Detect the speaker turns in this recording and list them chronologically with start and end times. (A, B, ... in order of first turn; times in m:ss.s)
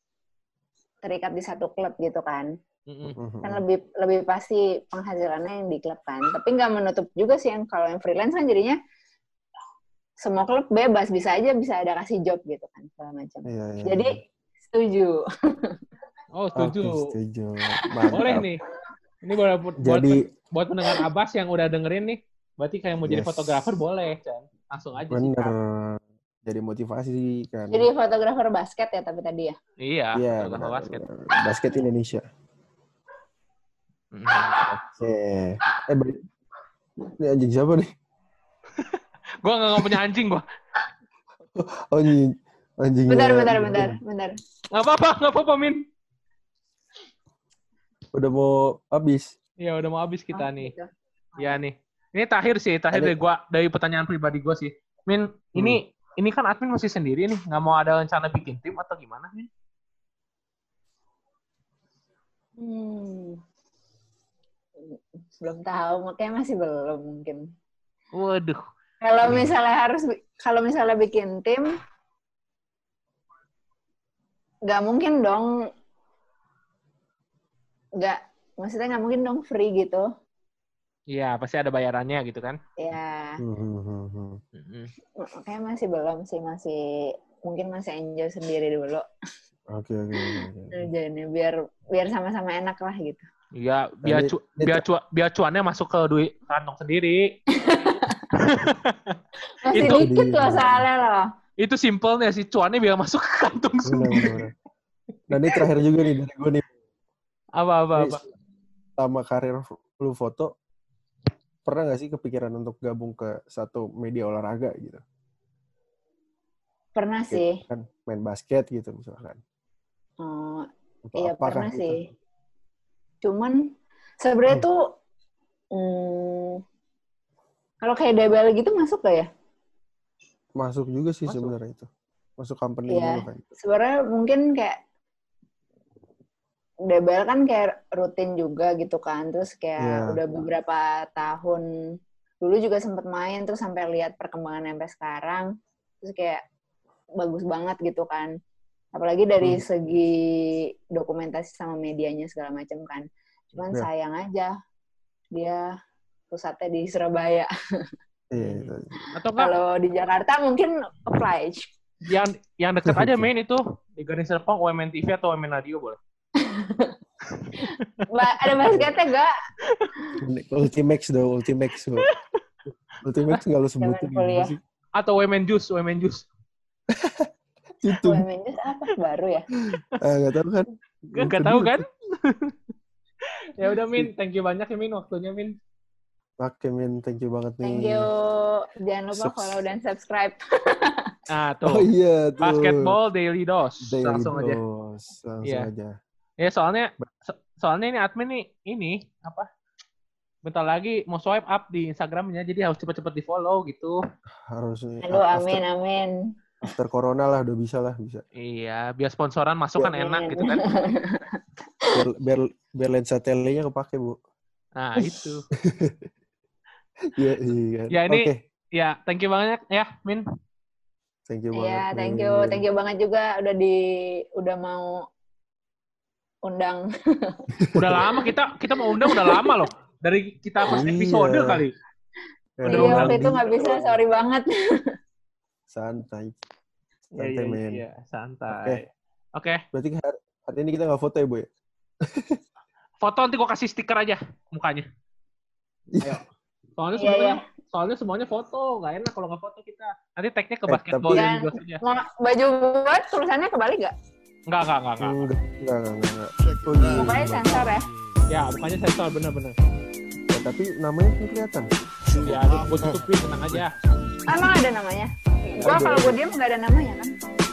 0:01.0-0:02.5 A
0:02.9-0:03.2 B
0:03.1-0:03.6 C
0:03.4-0:08.8 A
0:10.2-0:15.8 A
0:13.5-0:14.2 C
0:16.4-0:17.1 B
0:16.6-0:18.5 C
0:18.1-0:18.6 B
0:19.2-0:25.5 B
0:19.8-0:20.2 C
0:23.0-0:23.7 C
0:25.1-0:27.9 C
0:27.7-0:29.6 A
0:29.8-0:31.0 B
0:30.2-0:32.2 C
0:34.1-0:34.6 B
0:34.4-0:34.6 A
0:34.6-0:36.2 C
0:37.2-0:37.9 C
0:38.8-0:40.4 B
0:41.6-0:44.0 C
0:43.1-0:44.4 A
0:44.7-0:45.8 B
0:48.1-0:49.3 C
0:49.6-0:50.7 B
0:50.3-0:51.6 A
0:51.4-0:59.5 B
1:02.6-1:03.4 A
1:04.8-1:07.5 A
1:08.1-1:08.6 B
1:09.0-1:11.7 A
1:09.3-1:09.5 C
1:14.7-1:15.5 A
1:18.0-1:20.1 A
1:21.1-1:22.6 B
1:22.8-1:23.4 A
1:23.4-1:24.4 C
1:24.6-1:24.9 B
1:25.2-1:29.1 A
1:29.7-1:30.9 C
1:30.2-1:33.2 A
1:33.6-1:37.3 B
1:34.0-1:34.8 C
1:37.6-1:38.2 A
1:38.4-1:39.2 B
1:39.6-1:41.3 A
1:39.7-1:40.1 B
1:39.8-1:40.9 C
1:41.6-1:44.4 B
1:43.9-1:44.5 C
1:45.3-1:46.6 C
1:47.6-1:48.2 B
1:48.0-1:48.2 C
1:49.0-1:50.5 C
1:51.6-1:55.0 C
1:57.0-1:57.6 A
1:57.3-1:59.4 C
2:00.2-2:02.0 A
2:01.1-2:02.0 C
2:03.2-2:03.6 A
2:04.2-2:04.8 A
2:05.7-2:06.6 A
2:07.8-2:09.3 A
2:10.6-2:11.9 C
2:11.3-2:11.6 B
2:12.4-2:13.4 C
2:12.9-2:14.8 A
2:16.9-2:21.7 A
2:19.8-2:20.2 C
2:22.4-2:25.5 A
2:26.0-2:26.4 A
2:27.2-2:28.3 A
2:28.9-2:34.5 A
2:35.3-2:35.7 A
2:36.3-2:37.5 A
2:38.3-2:38.9 C
2:38.4-2:39.5 B
2:39.4-2:41.7 A
2:42.1-2:46.0 B
2:42.9-2:43.3 C
2:46.4-2:47.0 A
2:47.3-2:48.5 B
2:47.6-2:49.3 A
2:50.2-2:52.1 C
2:53.0-2:54.6 C
2:53.8-2:54.5 A
2:55.0-2:56.3 B
2:56.9-2:57.3 C
2:57.8-2:58.2 C
2:58.0-2:59.5 A
2:59.7-3:01.8 C
3:01.1-3:02.5 B
3:03.6-3:05.6 B
3:06.4-3:08.1 C
3:07.6-3:11.1 A
3:09.1-3:09.6 C
3:11.3-3:11.9 B
3:11.6-3:13.0 C
3:12.4-3:14.6 B
3:13.8-3:15.9 C
3:15.4-3:15.7 B
3:16.4-3:19.5 B
3:20.5-3:24.0 B
3:24.4-3:25.6 C
3:25.0-3:26.1 A
3:26.6-3:28.2 C
3:28.4-3:30.7 B
3:29.8-3:31.9 A
3:31.9-3:34.2 C
3:34.8-3:35.4 B
3:35.6-3:36.0 C
3:37.2-3:38.4 C
3:37.9-3:40.2 B
3:41.3-3:42.6 C
3:41.6-3:43.8 A
3:44.4-3:45.0 A
3:46.4-3:47.4 A
3:47.6-3:48.0 C
3:47.8-3:51.7 B
3:49.2-3:49.5 A
3:50.7-3:51.6 C
3:52.6-3:54.0 C
3:52.7-3:53.3 B
3:52.7-3:54.5 A
3:55.7-3:56.4 C
3:57.2-3:57.8 C
3:57.2-3:59.6 B
3:58.5-3:58.8 C
3:59.7-4:01.5 C
4:02.0-4:02.4 C
4:03.0-4:04.9 B
4:05.9-4:06.2 C
4:06.8-4:11.8 B
4:07.0-4:07.4 A
4:10.7-4:11.2 C
4:11.1-4:13.9 A
4:14.5-4:15.2 B
4:15.0-4:17.7 C
4:16.9-4:17.9 A
4:18.3-4:19.6 B
4:20.3-4:21.7 C
4:22.2-4:23.7 B
4:24.3-4:27.2 A
4:25.6-4:26.2 C
4:25.6-4:25.9 B